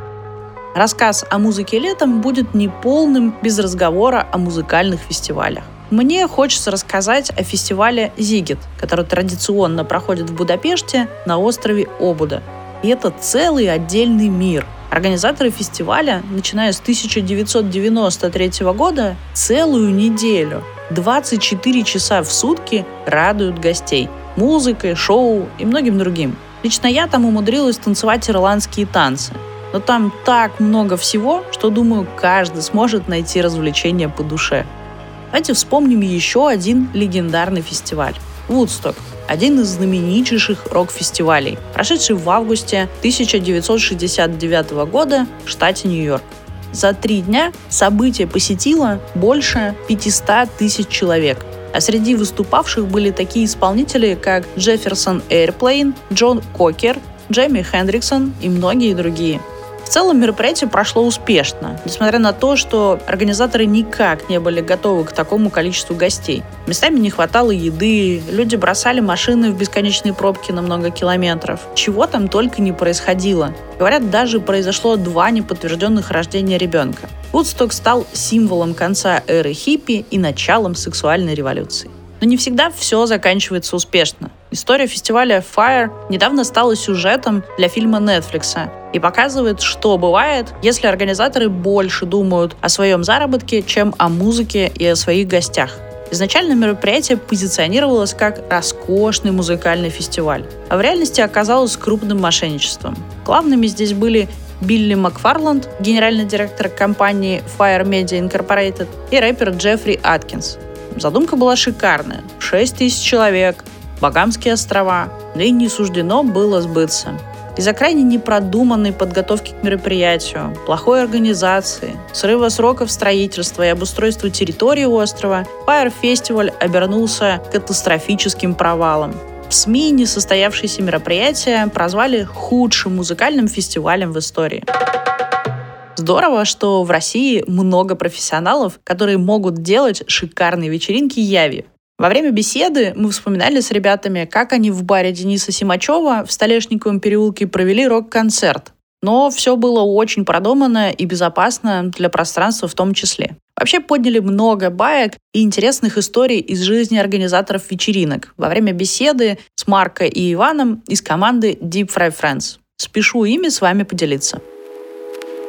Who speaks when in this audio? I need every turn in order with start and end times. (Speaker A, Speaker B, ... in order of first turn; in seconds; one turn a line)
Speaker A: 0.8-34.7
Speaker A: 35.3-134.7
Speaker A: 136.0-164.4